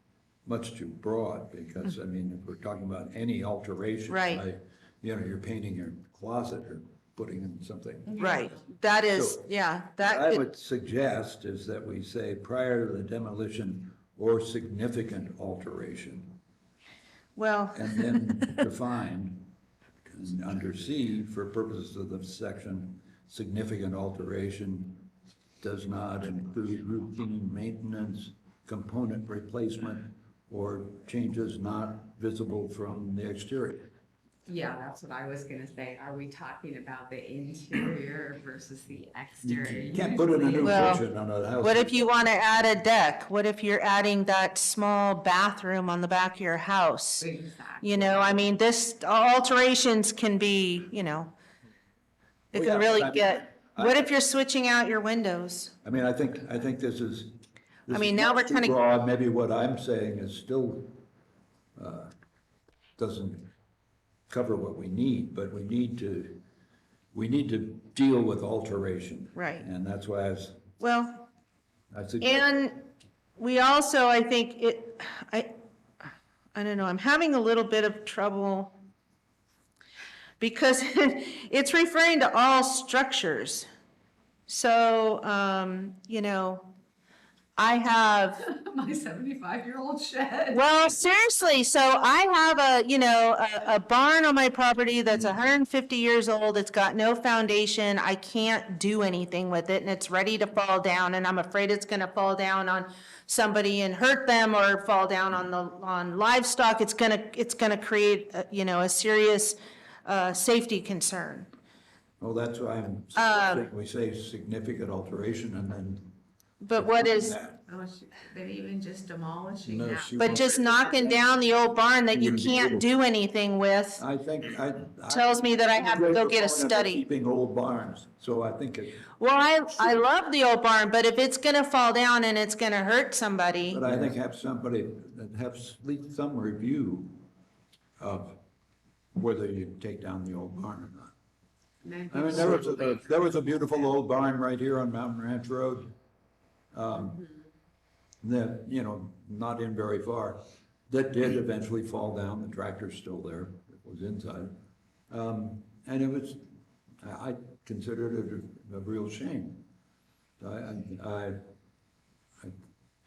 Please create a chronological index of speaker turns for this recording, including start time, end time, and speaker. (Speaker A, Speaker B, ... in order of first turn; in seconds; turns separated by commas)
Speaker A: 0.5-8.4, Speaker B: 4.1-4.4, Speaker C: 8.1-8.7, Speaker B: 8.2-10.4, Speaker A: 9.1-16.4, Speaker B: 17.4-18.6, Speaker A: 17.7-19.5, Speaker A: 20.1-33.9, Speaker C: 34.5-41.0, Speaker A: 39.4-42.1, Speaker B: 40.6-41.1, Speaker B: 41.6-47.3, Speaker C: 47.2-48.3, Speaker B: 47.8-51.3, Speaker A: 52.5-54.1, Speaker B: 52.5-55.7, Speaker A: 55.8-61.0, Speaker B: 57.9-58.8, Speaker A: 61.8-62.1, Speaker A: 63.0-63.5, Speaker A: 64.3-66.4, Speaker A: 67.1-70.7, Speaker B: 69.3-69.7, Speaker B: 70.8-71.3, Speaker A: 71.9-72.5, Speaker B: 72.2-72.9, Speaker B: 73.4-75.5, Speaker B: 76.5-78.8, Speaker B: 80.4-83.7, Speaker B: 84.5-86.7, Speaker B: 87.6-88.4, Speaker C: 88.3-90.6, Speaker B: 90.5-111.5, Speaker A: 112.2-116.2, Speaker B: 113.1-113.7, Speaker B: 116.6-117.4, Speaker A: 116.8-117.6, Speaker C: 117.6-121.1, Speaker A: 119.7-121.2, Speaker B: 120.2-124.0, Speaker A: 122.1-122.8, Speaker A: 124.0-129.0, Speaker B: 125.1-127.0, Speaker B: 129.2-133.8, Speaker A: 133.7-137.2, Speaker A: 138.0-138.4, Speaker A: 139.1-141.1, Speaker C: 141.8-143.0, Speaker A: 142.1-145.9, Speaker A: 146.7-147.2, Speaker C: 147.0-147.3, Speaker A: 148.2-154.6, Speaker A: 155.1-159.6, Speaker A: 160.4-161.4